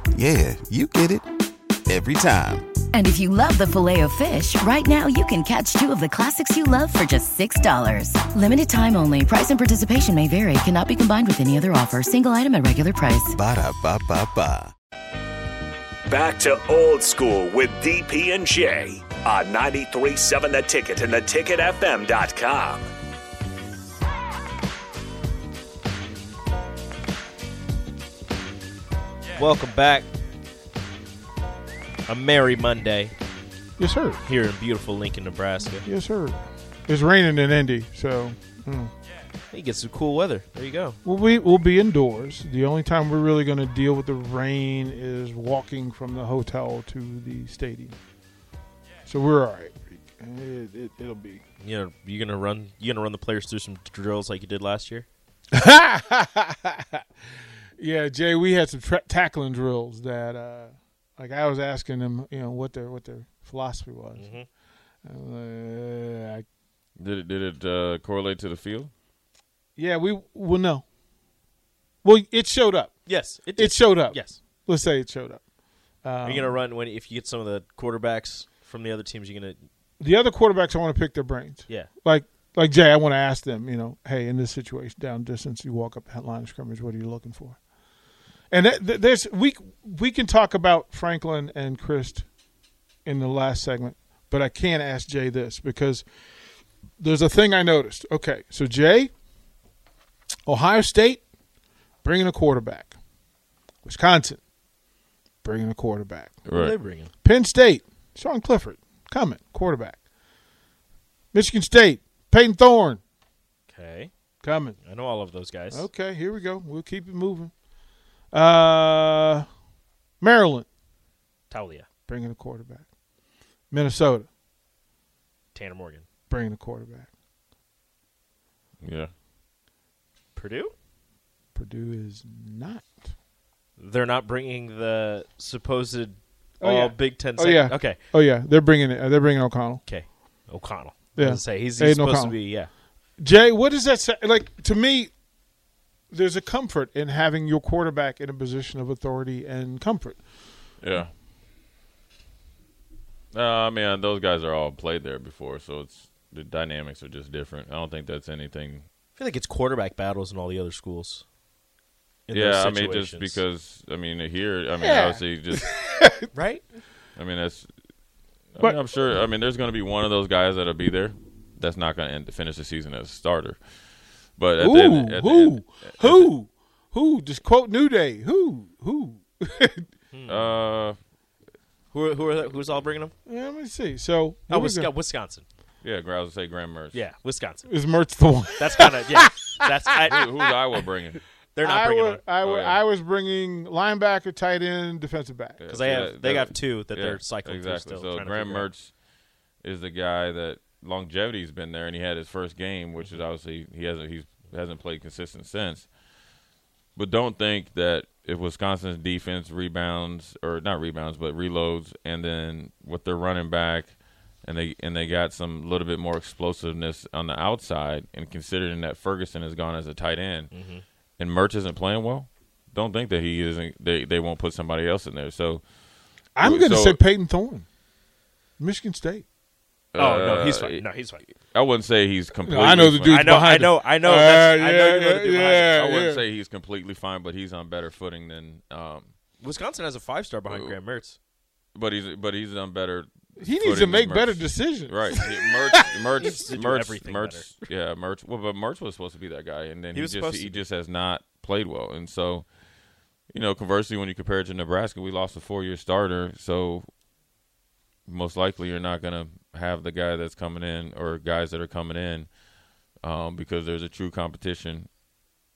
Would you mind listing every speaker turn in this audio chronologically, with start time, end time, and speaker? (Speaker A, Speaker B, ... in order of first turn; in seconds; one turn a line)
Speaker A: 0.1-1.2
Speaker A: 1.9-2.6
Speaker B: 2.9-13.3
Speaker A: 13.3-14.7
Speaker C: 16.1-22.9
Speaker D: 29.3-30.1
Speaker D: 32.1-33.1
Speaker E: 33.8-34.2
Speaker D: 34.2-35.9
Speaker E: 35.8-38.9
Speaker D: 39.5-41.0
Speaker E: 41.0-48.0
Speaker E: 49.0-51.4
Speaker D: 51.6-55.1
Speaker E: 55.5-57.0
Speaker E: 57.8-64.3
Speaker D: 64.2-64.5
Speaker E: 65.0-66.4
Speaker F: 67.0-68.9
Speaker E: 69.8-70.8
Speaker E: 72.0-72.9
Speaker D: 73.0-74.4
Speaker E: 73.5-75.4
Speaker E: 76.0-76.6
Speaker D: 76.2-79.7
Speaker E: 80.0-87.6
Speaker E: 88.5-92.2
Speaker E: 93.0-96.1
Speaker E: 97.0-99.1
Speaker E: 100.5-101.2
Speaker E: 102.0-102.9
Speaker E: 103.8-104.4
Speaker E: 105.4-106.3
Speaker F: 106.5-106.7
Speaker D: 106.5-107.1
Speaker E: 107.2-110.0
Speaker E: 111.3-113.0
Speaker D: 113.7-114.1
Speaker E: 114.4-114.8
Speaker D: 114.8-115.9
Speaker E: 115.7-117.5
Speaker E: 118.3-119.5
Speaker E: 120.2-120.7
Speaker D: 121.5-121.9
Speaker E: 122.1-122.8
Speaker E: 123.7-124.3
Speaker D: 125.5-126.1
Speaker E: 126.3-127.1
Speaker F: 128.8-129.1
Speaker D: 130.3-130.7
Speaker E: 131.5-133.1
Speaker D: 133.8-138.0
Speaker E: 136.6-139.8
Speaker D: 139.8-142.7
Speaker E: 141.2-142.4
Speaker E: 143.2-145.1
Speaker E: 146.1-150.2
Speaker F: 150.8-151.1
Speaker F: 153.3-158.8
Speaker D: 159.2-161.2
Speaker D: 162.3-163.4
Speaker F: 162.3-165.7
Speaker E: 164.8-166.3
Speaker D: 166.3-166.6
Speaker F: 167.2-167.7
Speaker F: 168.5-173.6
Speaker F: 174.4-176.3
Speaker E: 174.6-179.9
Speaker D: 180.1-180.5
Speaker F: 180.3-181.0
Speaker D: 181.9-183.1
Speaker E: 183.2-184.9
Speaker D: 184.5-185.4
Speaker F: 185.8-187.0
Speaker D: 186.9-187.7
Speaker E: 187.7-189.7
Speaker D: 188.6-190.2
Speaker F: 190.1-191.2
Speaker D: 191.5-192.2
Speaker E: 191.6-195.6
Speaker F: 192.4-192.8
Speaker F: 195.6-198.9
Speaker D: 195.7-198.7
Speaker F: 199.6-205.9
Speaker F: 206.9-220.5
Speaker D: 220.5-220.8
Speaker F: 221.2-225.6
Speaker E: 226.3-227.7
Speaker F: 226.4-227.0
Speaker E: 228.6-229.2
Speaker F: 229.9-233.3
Speaker D: 230.0-231.2
Speaker E: 232.4-236.2
Speaker D: 233.1-235.7
Speaker F: 235.7-239.1
Speaker D: 239.4-241.2
Speaker F: 240.5-240.7
Speaker F: 241.7-252.4
Speaker E: 243.4-246.1
Speaker D: 246.2-247.6
Speaker D: 249.9-250.6
Speaker F: 253.3-256.9
Speaker F: 258.1-262.3
Speaker F: 263.0-264.9